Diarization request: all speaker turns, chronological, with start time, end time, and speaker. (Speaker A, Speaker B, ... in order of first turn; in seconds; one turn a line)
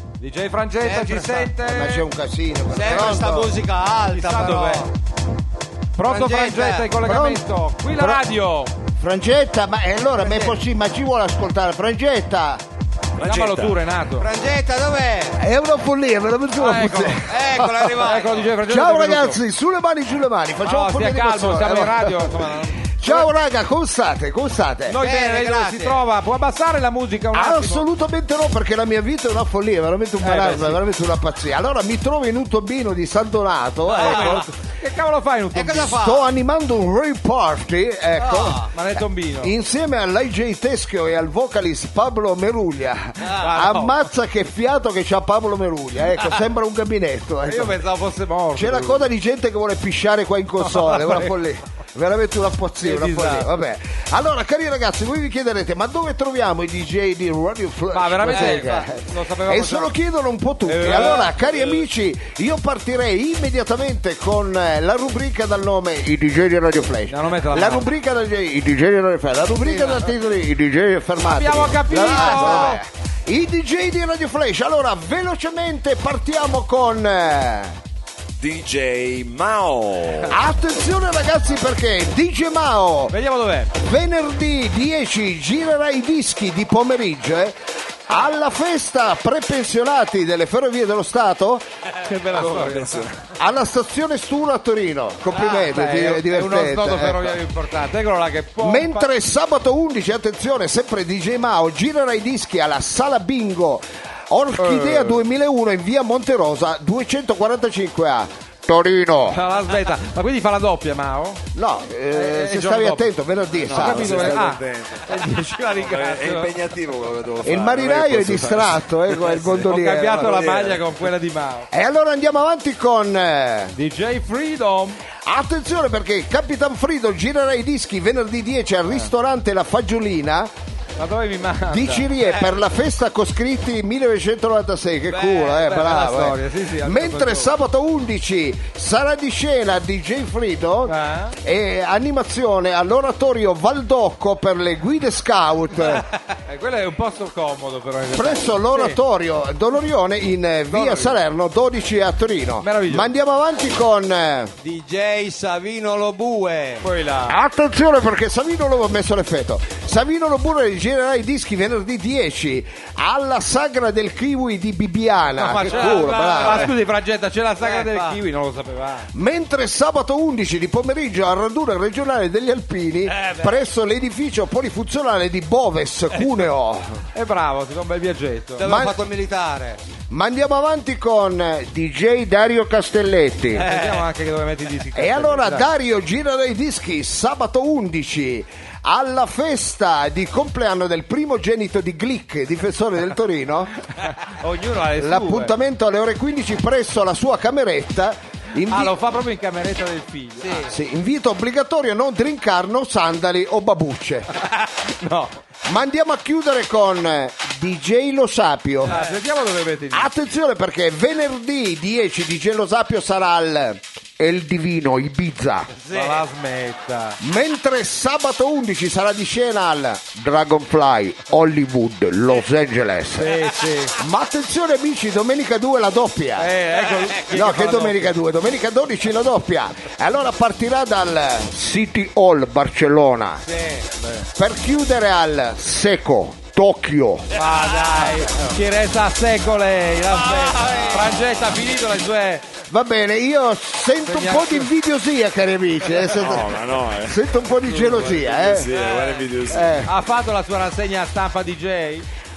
Speaker A: 0.2-2.1
Speaker B: 0.8-1.5
Speaker C: 1.6-3.5
Speaker B: 2.7-4.9
Speaker A: 4.1-4.9
Speaker A: 6.0-8.7
Speaker B: 6.0-6.9
Speaker C: 7.0-7.4
Speaker C: 8.0-8.3
Speaker C: 9.0-12.6
Speaker B: 10.2-10.5
Speaker D: 13.2-13.8
Speaker A: 13.2-14.3
Speaker B: 14.2-15.4
Speaker C: 15.4-17.9
Speaker A: 16.6-17.2
Speaker B: 17.3-18.5
Speaker A: 18.0-19.4
Speaker C: 18.7-25.0
Speaker A: 20.6-23.3
Speaker A: 24.9-27.8
Speaker B: 25.0-26.0
Speaker C: 27.3-34.5
Speaker A: 30.2-30.8
Speaker B: 33.9-34.5
Speaker A: 34.0-36.0
Speaker B: 35.5-36.3
Speaker C: 35.9-47.8
Speaker B: 38.2-38.7
Speaker A: 38.7-39.5
Speaker A: 43.3-44.1
Speaker A: 47.5-49.1
Speaker C: 48.5-77.8
Speaker A: 50.6-51.3
Speaker A: 52.8-53.5
Speaker A: 57.9-59.9
Speaker B: 58.3-58.9
Speaker A: 60.6-61.8
Speaker A: 67.1-67.9
Speaker A: 69.6-70.1
Speaker A: 71.2-72.8
Speaker B: 72.1-72.7
Speaker D: 78.4-80.3
Speaker C: 80.3-83.1
Speaker A: 83.1-83.7
Speaker C: 83.8-91.7
Speaker A: 92.0-93.0
Speaker D: 92.3-93.3
Speaker C: 93.4-97.4
Speaker A: 95.3-99.1
Speaker C: 98.6-109.4
Speaker A: 104.6-105.2
Speaker A: 109.3-111.4
Speaker C: 111.5-114.5
Speaker A: 112.1-113.1
Speaker D: 113.5-119.7
Speaker A: 113.7-116.5
Speaker C: 117.4-120.8
Speaker A: 119.6-121.7
Speaker C: 121.7-123.8
Speaker A: 123.8-125.0
Speaker C: 125.2-130.5
Speaker A: 131.0-132.1
Speaker C: 131.7-146.1
Speaker B: 132.2-132.5
Speaker B: 135.1-135.5
Speaker A: 135.5-137.5
Speaker A: 140.9-141.4
Speaker A: 146.5-149.0
Speaker C: 148.1-154.5
Speaker A: 150.7-151.2
Speaker A: 152.6-153.1
Speaker B: 154.6-156.8
Speaker A: 156.8-157.4
Speaker C: 157.3-166.7
Speaker A: 165.4-169.1
Speaker B: 167.6-168.2
Speaker C: 169.1-177.0
Speaker A: 177.1-178.7
Speaker B: 178.6-179.8
Speaker C: 178.6-179.0
Speaker C: 180.1-183.7
Speaker A: 183.6-185.7
Speaker B: 183.6-184.1
Speaker C: 184.9-193.8
Speaker A: 194.0-195.5
Speaker C: 195.0-198.9
Speaker A: 198.7-200.7
Speaker B: 200.4-200.7
Speaker C: 200.6-204.3
Speaker A: 204.5-205.4
Speaker C: 205.7-209.0
Speaker A: 208.8-210.1
Speaker B: 208.9-209.2
Speaker C: 209.9-215.7
Speaker B: 215.7-216.2
Speaker A: 215.9-217.2
Speaker C: 217.2-226.5
Speaker A: 223.2-224.0
Speaker A: 226.4-228.1
Speaker C: 227.2-233.4
Speaker A: 233.4-234.2
Speaker C: 234.3-237.3
Speaker A: 237.3-242.5
Speaker B: 237.4-238.4
Speaker B: 240.1-241.2
Speaker C: 242.7-248.7
Speaker A: 244.1-244.7
Speaker D: 246.1-249.9
Speaker A: 247.8-248.2
Speaker B: 248.7-249.3
Speaker C: 249.5-249.9
Speaker A: 249.8-252.1